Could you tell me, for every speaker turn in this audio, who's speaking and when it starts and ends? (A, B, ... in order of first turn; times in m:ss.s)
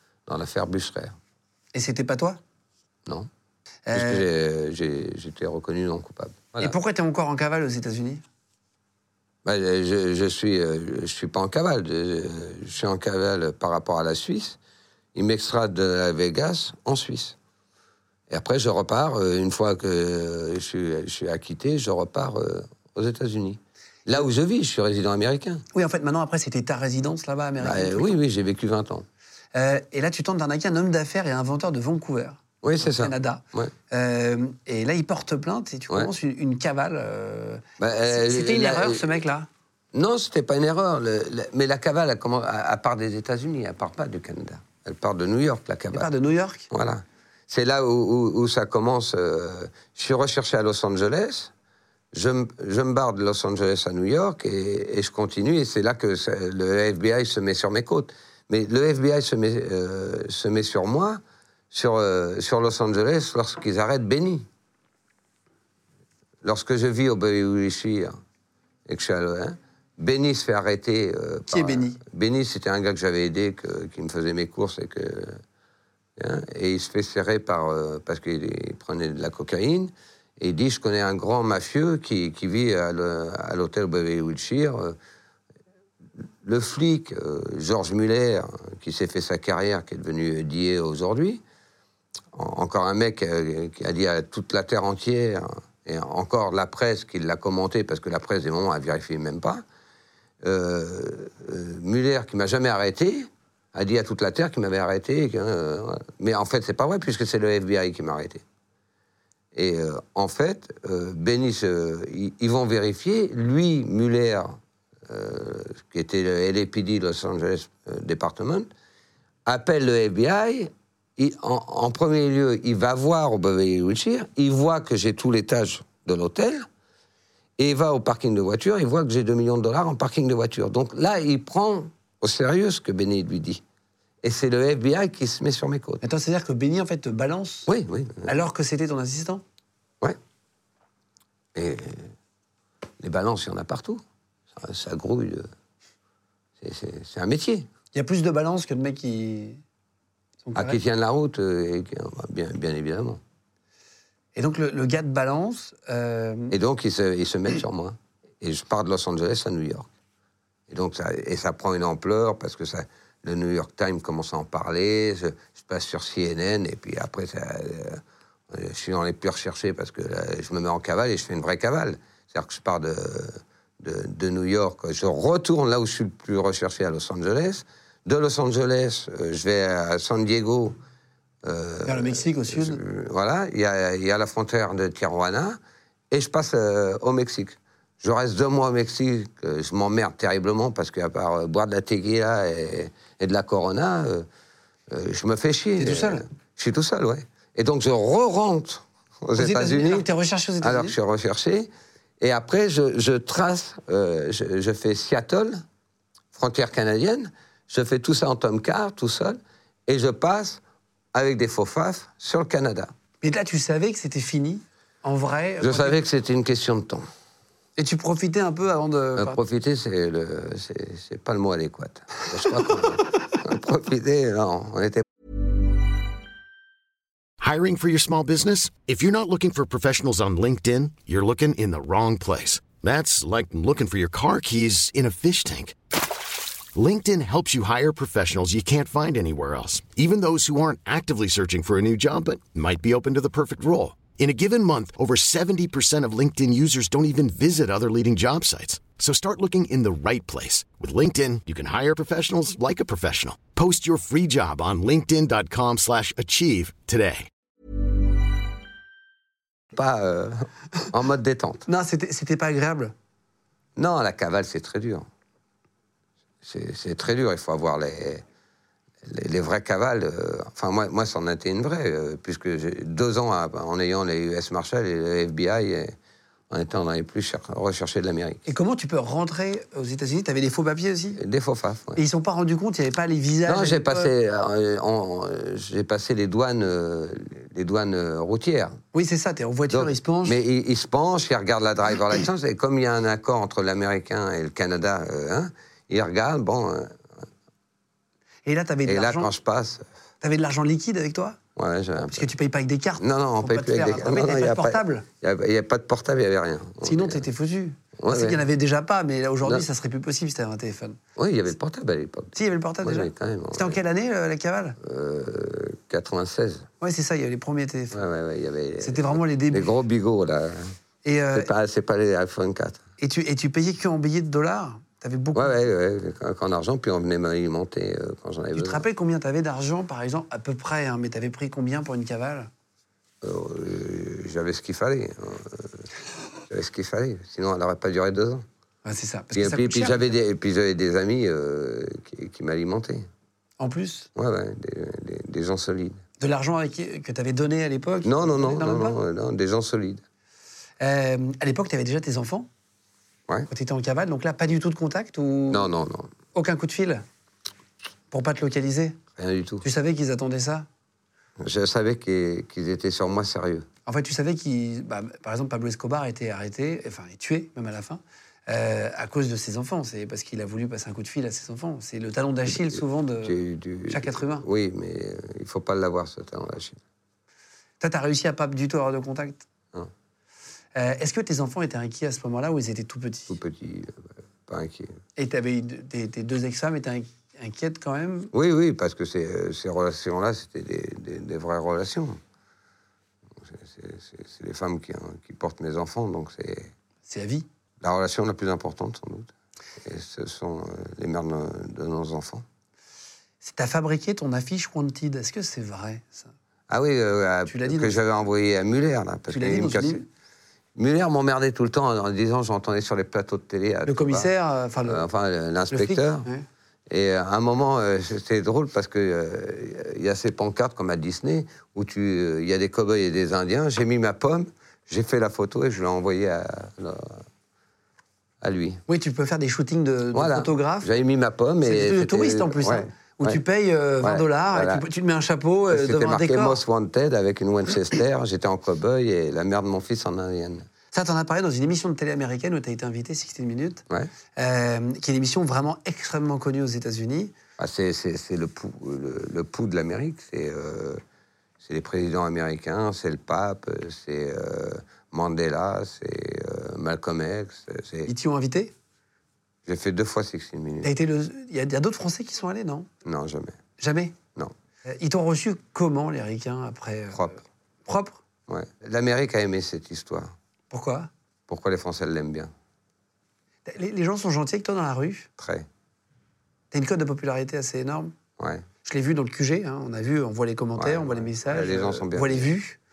0:00.3-0:01.2 A
0:01.7-0:02.4 B
0:03.9-0:04.3 B
0:03.9-0:06.8 A
0:06.6-0:08.2 B
0:09.4-0:14.6 A
0:15.2-0:17.4 A
0:18.3-0:25.6 A
0:25.7-0:28.2 B
0:27.6-0:29.1 A
0:29.5-0:39.5 B
0:32.6-0:33.7 A
0:37.8-0:39.2 A
0:39.9-0:46.1 A
0:45.9-0:46.7 B
0:46.7-0:51.5 A
0:52.1-1:04.5 A
1:06.4-1:08.2 A
1:08.9-1:15.4 A
1:11.5-1:12.0 B
1:16.2-1:25.0 A
1:26.2-1:31.4 A
1:32.3-1:39.6 A
1:40.4-1:48.4 A
1:49.5-1:58.7 A
1:59.5-2:06.7 A
2:07.6-2:13.6 A
2:14.2-2:16.0 A
2:16.0-2:17.7 B
2:17.7-2:18.3 A
2:18.2-2:19.4 B
2:21.5-2:22.1 A
2:23.0-2:25.5 A
2:26.6-2:27.7 A
2:27.9-2:29.6 B
2:30.4-2:30.8 B
2:30.6-2:33.2 A
2:34.4-2:36.6 B
2:36.5-2:39.9 A
2:40.7-3:00.8 A
3:01.4-3:05.6 A
3:01.8-3:02.8 B
3:06.1-3:14.3 A
3:14.9-3:20.1 A
3:15.8-3:16.2 B
3:19.4-3:21.0 B
3:20.6-3:21.7 A
3:22.2-3:25.6 A
3:26.3-3:30.6 A
3:31.1-3:32.9 A
3:33.2-3:36.0 B
3:35.6-3:37.1 A
3:37.8-3:39.4 B
3:39.2-3:45.0 A
3:47.4-3:55.8 C
3:56.7-4:17.3 C
4:19.7-4:21.6 A
4:21.7-4:22.9 B
4:23.8-4:25.1 A
4:26.4-4:28.2 A
4:29.0-4:36.0 A
4:36.5-4:38.4 A
4:38.5-4:41.2 B
4:41.2-4:42.0 A
4:42.0-4:44.1 B
4:43.5-4:48.8 A
4:48.9-4:50.4 B
4:49.7-4:57.3 A
4:58.5-4:59.3 B
4:58.8-4:59.9 A
5:00.2-5:01.4 B
5:01.6-5:02.3 A
5:02.0-5:05.1 B
5:03.0-5:07.2 A
5:06.8-5:11.0 B
5:08.0-5:08.5 A
5:11.2-5:13.8 A
5:12.4-5:14.8 B
5:14.8-5:16.7 A
5:16.8-5:18.0 B
5:17.9-5:20.7 A
5:18.8-5:19.7 B
5:21.0-5:21.5 B
5:21.3-5:22.8 A
5:23.0-5:25.5 B
5:25.3-5:28.8 A
5:28.5-5:32.5 B
5:33.2-5:35.9 A
5:36.5-5:38.5 A
5:38.8-5:40.1 B
5:39.3-5:43.1 A
5:43.6-5:44.1 B
5:44.2-5:46.0 A
5:46.2-5:49.0 B
5:48.0-5:50.0 A
5:50.8-5:52.5 B
5:53.5-5:55.7 B
5:55.5-5:56.1 A
5:56.3-5:57.0 B
5:58.1-5:59.0 B
5:59.2-5:59.6 A
5:59.6-6:00.7 B
6:01.4-6:03.7 A
6:03.9-6:14.5 B
6:12.5-6:16.8 A
6:17.8-6:19.4 B
6:20.8-6:23.4 B
6:23.3-6:25.0 A
6:25.2-6:28.3 B
6:28.3-6:32.2 A
6:33.4-6:36.7 A
6:37.1-6:37.5 B
6:37.8-6:42.5 A
6:43.4-6:46.3 B
6:46.7-6:50.0 A
6:47.5-6:48.0 B
6:49.3-6:50.1 B
6:50.8-6:54.3 A
6:53.9-6:55.0 B
6:54.8-6:56.3 A
6:55.7-6:56.4 B
6:56.9-7:07.3 A
7:08.4-7:08.8 A
7:08.9-7:10.9 B
7:10.1-7:13.4 A
7:11.6-7:16.6 B
7:14.0-7:14.9 A
7:15.7-7:20.7 A
7:20.9-7:23.8 B
7:24.4-7:27.3 B
7:27.6-7:31.0 A
7:31.6-7:38.1 A
7:38.1-7:38.7 B
7:39.7-7:40.9 A
7:40.8-7:42.9 B
7:43.0-7:43.6 A
7:43.8-7:44.2 B
7:44.9-7:48.2 B
7:47.1-7:47.4 A
7:48.5-7:50.4 A
7:50.7-7:51.1 B
7:51.5-7:52.5 A
7:53.7-7:55.3 B
7:55.4-7:55.7 A
7:56.7-7:58.1 B
7:58.4-7:58.7 A
7:58.8-8:02.8 B
8:00.8-8:02.5 A